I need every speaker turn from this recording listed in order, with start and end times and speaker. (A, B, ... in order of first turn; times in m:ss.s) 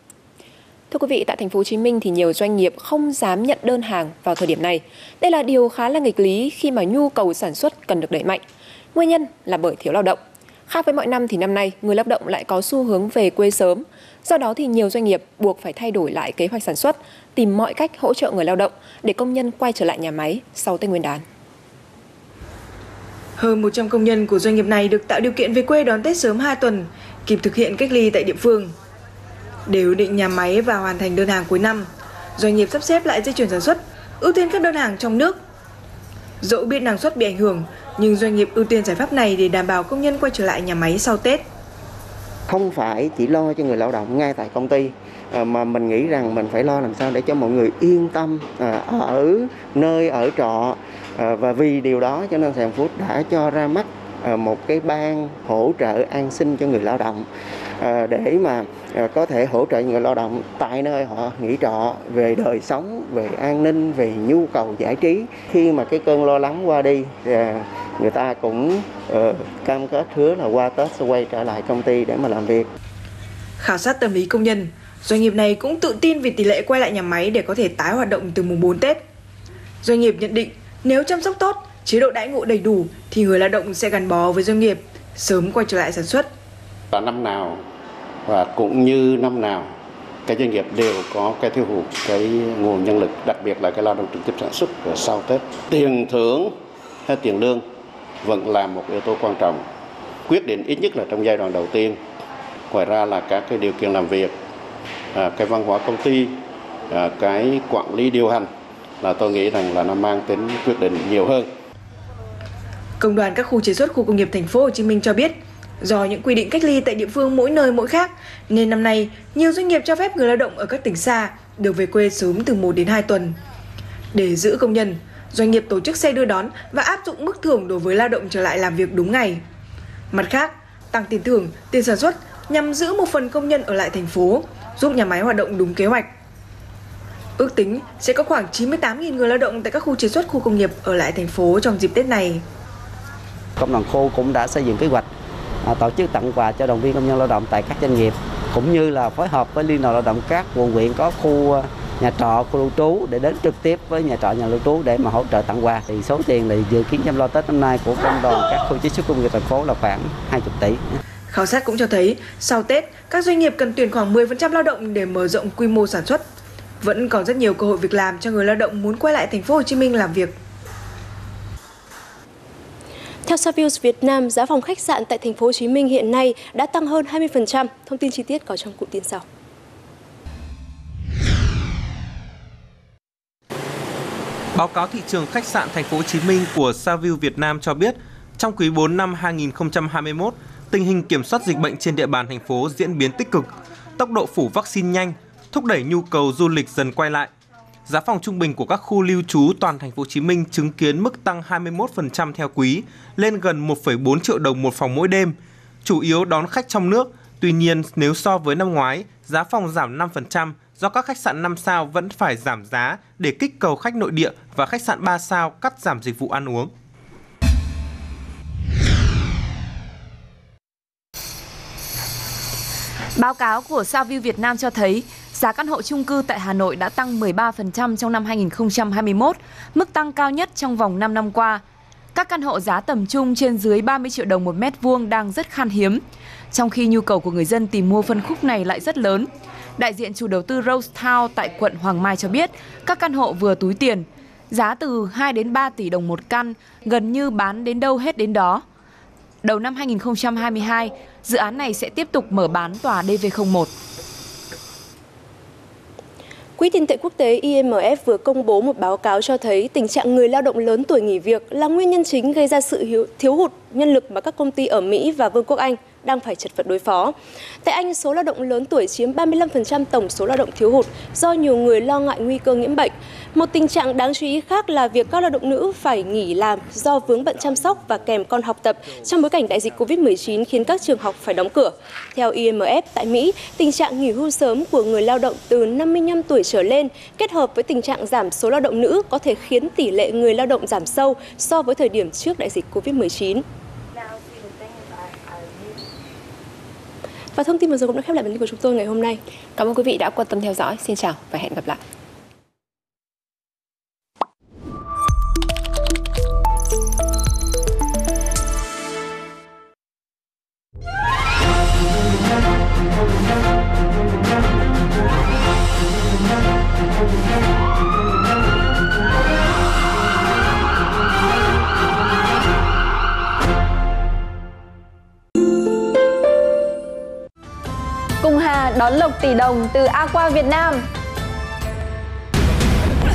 0:00.9-0:08.4 A
0:08.9-0:21.2 A
0:23.4-0:28.7 B
0:29.7-0:35.4 B
0:36.4-0:41.4 B
0:42.5-0:57.3 C
0:57.8-1:12.7 C
1:13.6-1:19.0 B
1:19.8-1:26.3 B
1:26.9-1:27.6 D
1:28.3-1:29.7 D
1:30.3-1:36.5 D
1:37.1-1:37.6 D
1:38.2-1:39.6 D
1:40.3-1:42.0 D
1:42.7-1:44.3 D
1:45.2-1:48.5 D
1:49.0-1:51.5 D
1:53.0-2:03.4 B
2:04.1-2:09.4 B
2:10.1-2:16.1 B
2:17.4-2:22.4 B
2:23.6-2:25.1 E
2:25.6-2:41.0 E
2:41.3-2:46.2 B
2:46.8-2:50.4 B
2:53.3-2:59.2 F
3:04.6-3:13.5 G
3:14.0-3:17.3 G
3:17.9-3:25.3 G
3:25.9-3:36.7 G
3:43.2-3:51.6 H
3:52.2-3:56.0 H
3:56.5-4:08.6 H
4:09.4-4:13.7 H
4:16.6-4:53.4 F
4:57.3-4:59.2 F
4:59.6-5:01.8 A
5:28.2-5:30.8 I